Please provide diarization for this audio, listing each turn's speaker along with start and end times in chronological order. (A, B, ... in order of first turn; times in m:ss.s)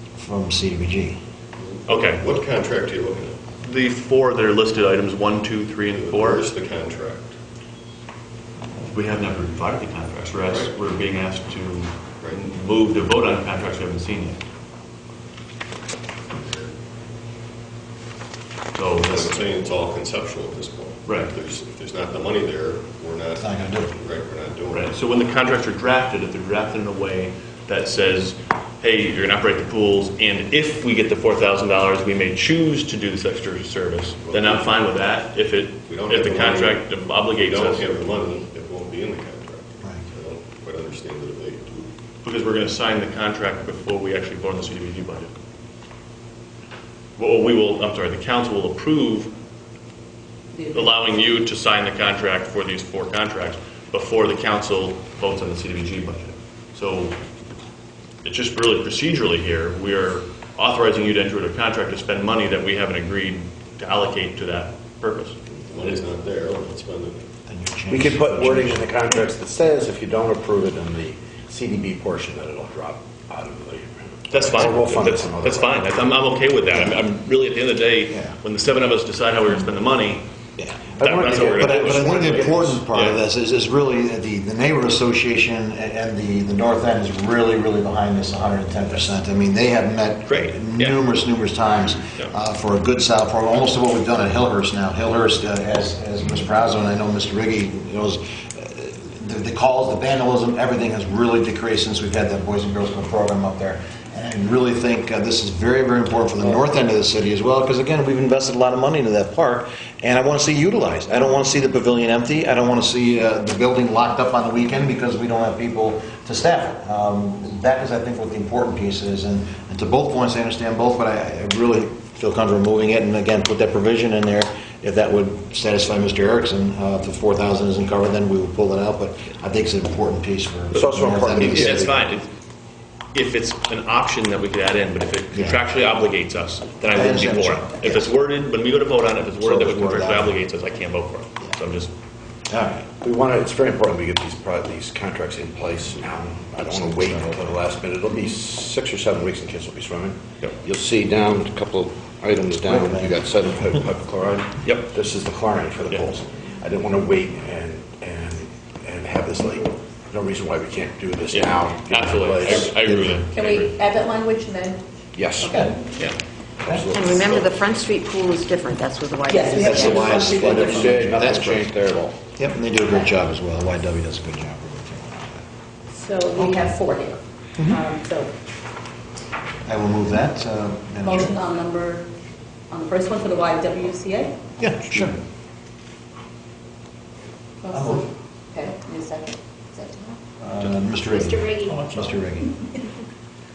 0:00.2-0:01.2 A
0:01.6-0:03.4 B
0:01.9-0:02.3 C
0:03.6-0:06.5 C
0:05.9-0:07.3 B
0:08.8-0:14.4 C
0:10.4-0:10.7 B
0:16.3-0:16.7 B
0:18.7-0:19.3 C
0:18.9-0:24.9 B
0:21.0-0:21.3 C
0:23.4-0:23.9 A
0:24.7-0:37.8 C
0:34.3-0:34.7 B
0:35.9-0:41.9 B
0:42.2-0:45.3 C
0:47.2-0:49.3 C
0:50.5-0:51.0 D
0:50.7-0:57.2 C
0:58.2-1:06.0 C
1:05.6-1:07.2 B
1:07.5-1:08.9 A
1:07.9-1:15.9 E
1:14.3-1:20.2 C
1:20.6-1:20.9 A
1:21.0-1:22.8 E
1:21.0-1:23.2 C
1:21.4-2:11.8 A
1:30.2-1:31.0 C
2:10.7-2:12.0 E
2:11.4-2:12.3 C
2:13.1-2:21.9 C
2:15.3-2:15.6 A
2:16.9-2:18.1 A
2:19.4-2:20.3 A
2:22.5-2:22.9 A
2:23.0-2:42.7 E
2:32.8-2:33.0 A
2:41.3-2:43.8 C
2:42.8-2:43.2 A
2:43.4-2:44.8 D
2:45.1-2:45.6 E
2:45.4-2:45.8 D
2:45.4-2:45.7 A
2:46.6-2:47.5 E
2:46.9-2:50.3 F
2:49.3-2:51.0 D
2:49.5-2:51.7 A
2:49.6-2:52.2 E
2:52.3-2:55.4 A
2:55.9-2:58.3 D
2:56.4-2:56.7 A
2:59.6-3:01.3 A
3:01.0-3:02.1 D
3:02.7-3:04.4 D
3:04.6-3:05.1 A
3:07.6-3:10.2 D
3:07.7-3:08.0 A
3:10.4-3:12.6 A
3:11.2-3:11.8 F